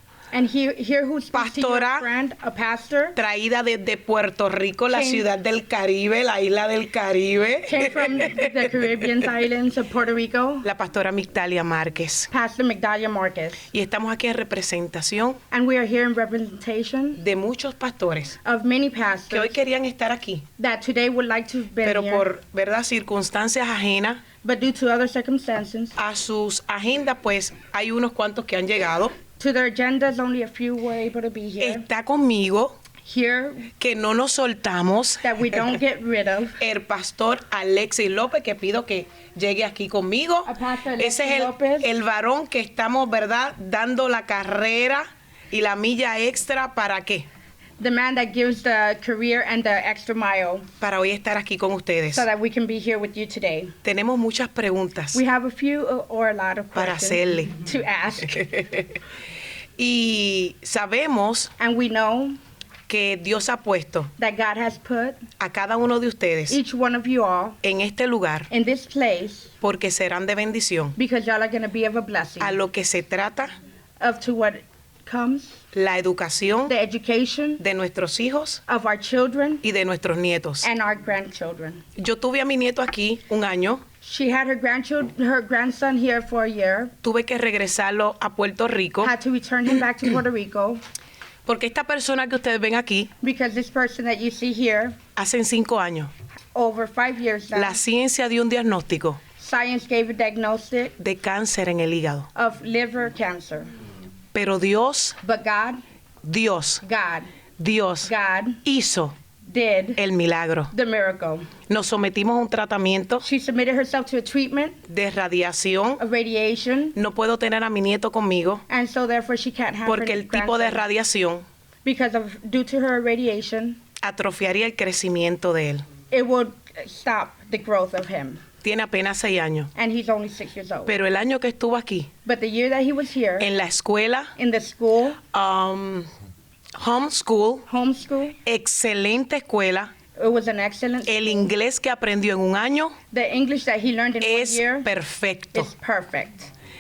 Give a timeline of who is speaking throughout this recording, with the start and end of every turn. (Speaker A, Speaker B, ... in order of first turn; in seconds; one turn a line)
Speaker A: 0.3-3.2
Speaker B: 1.3-2.1
Speaker B: 3.2-8.7
Speaker A: 4.9-5.3
Speaker A: 7.7-10.7
Speaker B: 10.6-12.3
Speaker A: 12.3-13.7
Speaker B: 13.7-15.4
Speaker A: 15.5-17.2
Speaker B: 17.1-18.4
Speaker A: 18.4-19.6
Speaker B: 19.3-20.5
Speaker A: 20.6-22.3
Speaker B: 21.8-24.3
Speaker A: 24.4-26.0
Speaker B: 26.0-29.2
Speaker A: 29.4-31.8
Speaker B: 31.6-32.8
Speaker A: 33.0-33.7
Speaker B: 33.8-35.7
Speaker A: 35.2-36.6
Speaker B: 36.6-47.3
Speaker A: 40.5-41.9
Speaker A: 47.8-50.7
Speaker B: 50.8-52.3
Speaker A: 52.1-53.7
Speaker B: 53.8-55.2
Speaker A: 55.1-58.6
Speaker B: 56.7-57.6
Speaker B: 58.5-58.9
Speaker B: 59.8-61.5
Speaker A: 61.6-62.4
Speaker B: 62.9-64.1
Speaker A: 64.2-65.2
Speaker B: 65.4-66.6
Speaker A: 66.5-67.6
Speaker B: 67.6-68.5
Speaker A: 68.5-69.5
Speaker B: 69.6-71.0
Speaker A: 71.0-72.6
Speaker B: 72.4-73.6
Speaker A: 74.0-75.6
Speaker B: 75.7-76.7
Speaker A: 76.7-77.6
Speaker B: 77.6-78.6
Speaker A: 78.7-79.6
Speaker B: 79.6-80.7
Speaker A: 80.6-81.8
Speaker B: 82.0-83.8
Speaker A: 84.0-86.9
Speaker B: 87.0-89.1
Speaker A: 89.0-90.8
Speaker B: 91.5-93.1
Speaker A: 93.2-95.0
Speaker B: 95.2-96.1
Speaker A: 96.5-97.8
Speaker B: 97.5-99.2
Speaker A: 99.4-100.9
Speaker B: 101.0-102.3
Speaker A: 102.3-103.7
Speaker B: 104.3-105.2
Speaker A: 105.2-105.8
Speaker B: 106.2-106.8
Speaker A: 106.8-107.3
Speaker B: 107.6-108.1
Speaker A: 108.0-108.6
Speaker B: 108.6-109.2
Speaker A: 109.4-110.0
Speaker B: 110.0-110.7
Speaker A: 110.7-111.5
Speaker B: 111.7-113.2
Speaker A: 113.2-114.8
Speaker B: 114.9-116.0
Speaker A: 116.0-117.0
Speaker B: 117.0-118.6
Speaker A: 118.7-120.8
Speaker B: 119.8-121.5
Speaker A: 121.8-123.8
Speaker B: 124.0-125.9
Speaker A: 126.1-128.4
Speaker B: 128.6-129.7
Speaker A: 129.8-130.9
Speaker B: 130.9-132.1
Speaker A: 132.2-133.5
Speaker B: 133.4-134.3
Speaker A: 134.4-135.2
Speaker B: 135.3-136.1
Speaker B: 136.8-137.7
Speaker A: 137.7-138.4
Speaker B: 138.4-139.9
Speaker A: 140.2-141.5
Speaker B: 141.0-143.0
Speaker A: 143.1-144.9
Speaker B: 144.2-145.7
Speaker A: 145.5-146.5